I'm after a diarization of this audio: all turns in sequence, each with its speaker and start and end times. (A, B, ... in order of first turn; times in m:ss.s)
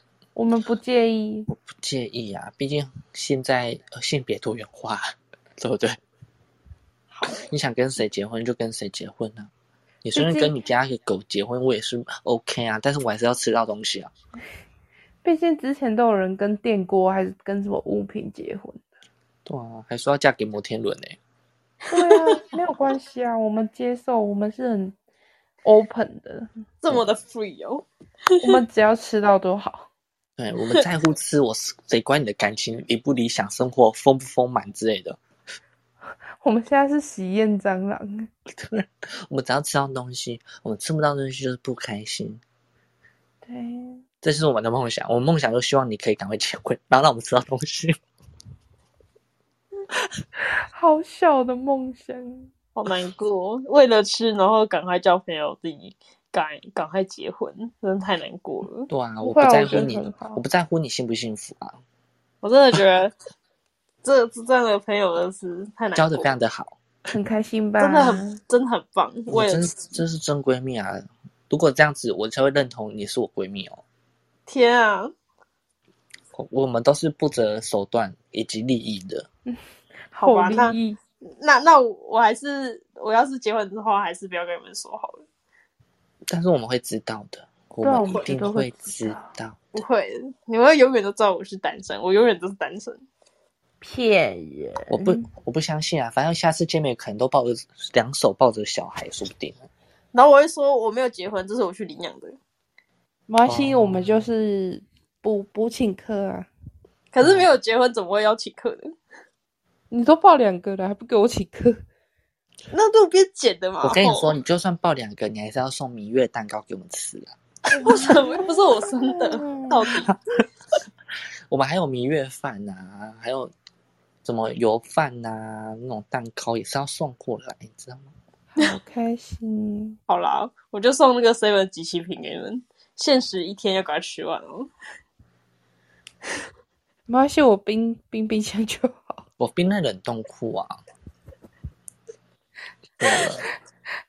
0:00.4-0:01.5 A
0:01.5-0:05.0 B
0:05.6-0:06.0 B
0:07.4-0:09.5 B
0:10.0-0:14.1 B
0:10.1-0:10.6 A
0:15.2-0:18.8 A
0:19.5-0:21.2 B
0:21.9-0:25.0 A
0:22.1-0:22.4 C
0:25.6-0:26.5 A
0:26.8-0:28.6 C
0:28.4-0:29.9 A
0:30.4-0:35.2 B
0:36.4-0:38.3 A
0:38.5-0:42.4 B
0:43.4-0:44.0 A
0:44.2-0:48.0 B
0:50.6-0:52.5 A
0:52.8-0:58.9 C
0:58.9-1:01.8 B
0:59.2-1:00.4 A
1:02.4-1:03.1 C
1:04.0-1:06.3 C
1:06.0-1:06.8 B
1:07.1-1:08.4 A
1:07.8-1:10.0 C
1:09.3-1:13.8 B
1:14.5-1:15.1 C
1:16.3-1:19.3 B
1:20.1-1:21.0 A
1:20.2-1:20.8 C
1:21.4-1:25.2 C
1:26.3-1:29.6 B
1:27.8-1:29.3 A
1:29.8-1:33.0 C
1:33.8-1:35.3 A
1:34.9-1:39.6 B
1:40.1-1:42.4 C
1:43.3-1:46.5 A
1:43.5-1:44.2 B
1:47.1-1:48.9 C
1:47.2-1:47.5 B
1:49.9-1:51.8 A
1:52.7-1:54.4 C
1:53.8-1:58.1 B
1:57.7-2:00.0 A
1:57.8-2:00.1 C
2:01.5-2:03.5 B
2:04.2-2:08.1 B
2:08.5-2:10.0 A
2:10.1-2:14.7 C
2:17.1-2:19.2 A
2:19.4-2:20.8 B
2:23.0-2:23.5 B